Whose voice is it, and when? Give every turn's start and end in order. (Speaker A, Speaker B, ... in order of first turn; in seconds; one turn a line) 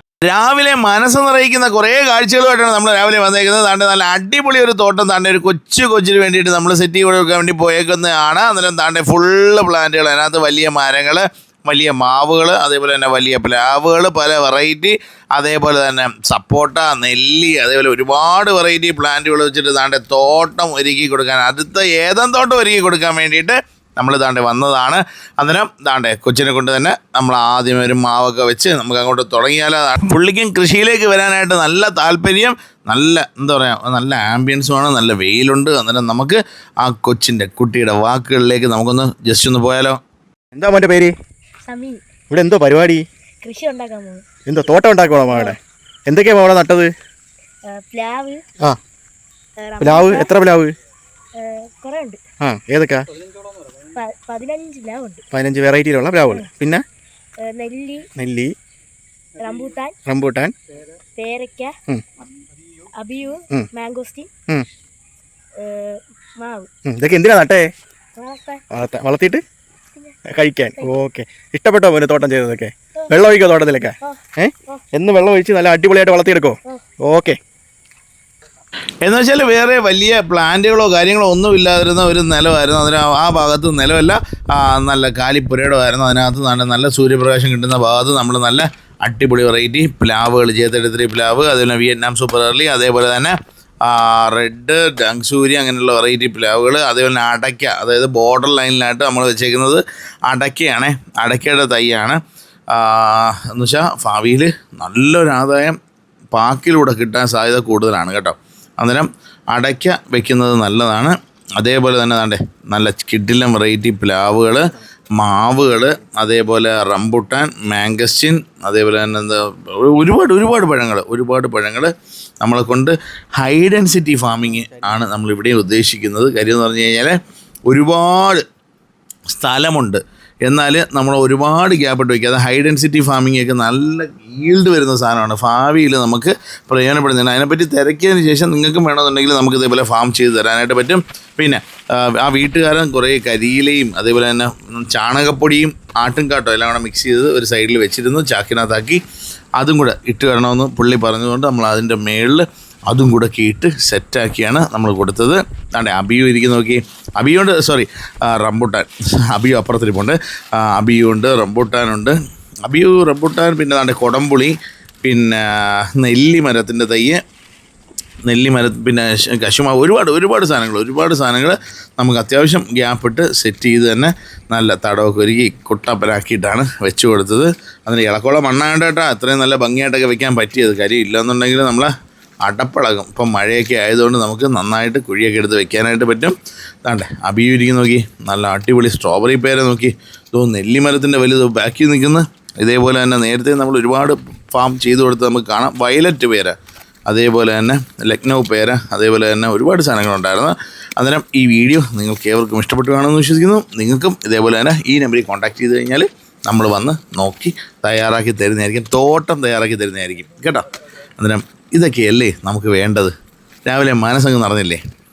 Speaker A: 0.2-40.0
Speaker B: 40.5-41.1
Speaker C: 41.6-42.0
Speaker B: 42.3-43.0
Speaker C: 43.4-44.2
Speaker B: 44.5-46.9
Speaker C: 45.3-45.5
Speaker C: 47.7-48.4
Speaker C: 49.6-50.3
Speaker B: 49.8-50.8
Speaker C: 51.3-52.2
Speaker B: 52.4-53.0
Speaker C: 53.9-55.2
Speaker B: 55.3-56.8
Speaker C: 57.4-58.1
Speaker B: 58.2-58.5
Speaker C: 59.4-60.0
Speaker B: 60.1-60.5
Speaker C: 61.2-61.7
Speaker C: 63.0-64.3
Speaker C: 65.6-66.7
Speaker B: 66.9-67.6
Speaker C: 68.2-68.6
Speaker B: 68.7-69.4
Speaker C: 70.0-70.2
Speaker B: 70.3-77.4
Speaker C: 70.8-71.0
Speaker C: 74.0-74.8
Speaker A: 79.0-102.2
Speaker A: 102.7-105.8
Speaker A: 106.3-114.6
Speaker A: 115.2-127.2
Speaker A: 127.7-128.4
Speaker A: 129.3-149.0
Speaker A: 149.6-167.2
Speaker A: 168.2-181.9
Speaker A: 182.4-196.6
Speaker A: 197.1-210.6
Speaker A: 211.2-213.1
Speaker A: 213.7-214.8